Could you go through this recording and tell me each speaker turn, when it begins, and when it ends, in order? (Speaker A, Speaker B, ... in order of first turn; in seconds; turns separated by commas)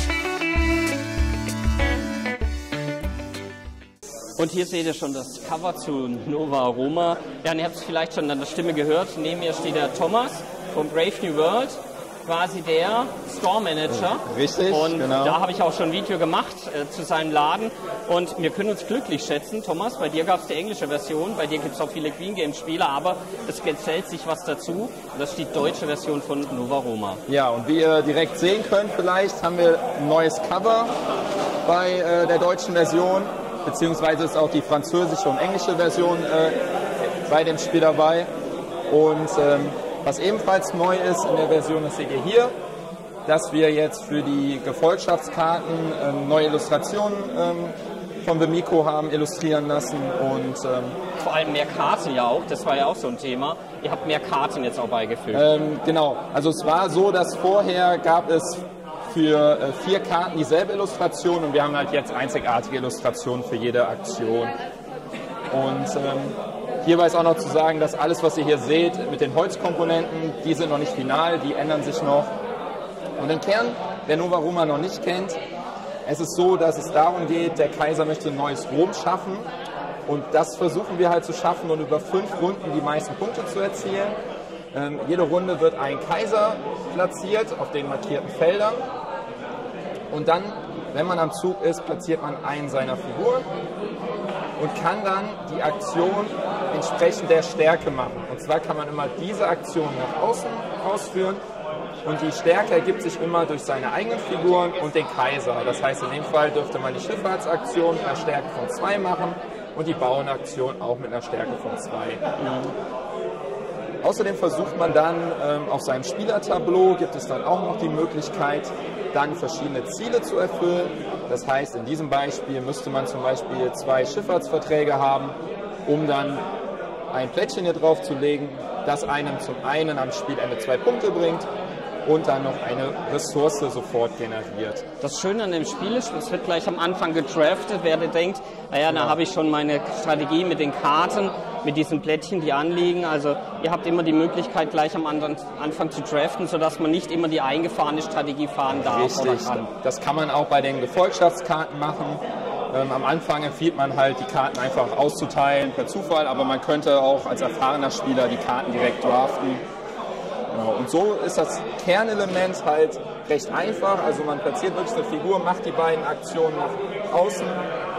Speaker A: 4.4-27.2, Speaker B: 13.9-15.4, Speaker B: 27.3-30.9, Speaker B: 31.6-36.6, Speaker B: 37.3-38.3, Speaker B: 38.9-42.5, Speaker B: 43.3-51.0, Speaker A: 51.2-55.5, Speaker B: 55.3-64.5, Speaker B: 65.5-72.3, Speaker B: 73.2-75.4, Speaker B: 76.1-79.5, Speaker B: 80.1-84.2, Speaker B: 84.7-88.8, Speaker B: 90.1-93.5, Speaker B: 94.6-101.4, Speaker B: 102.0-112.2, Speaker A: 112.4-112.7, Speaker B: 114.0-125.3, Speaker B: 125.9-126.4, Speaker B: 127.1-131.5, Speaker B: 132.1-134.8, Speaker A: 135.0-149.7, Speaker B: 148.7-159.6, Speaker B: 160.5-167.6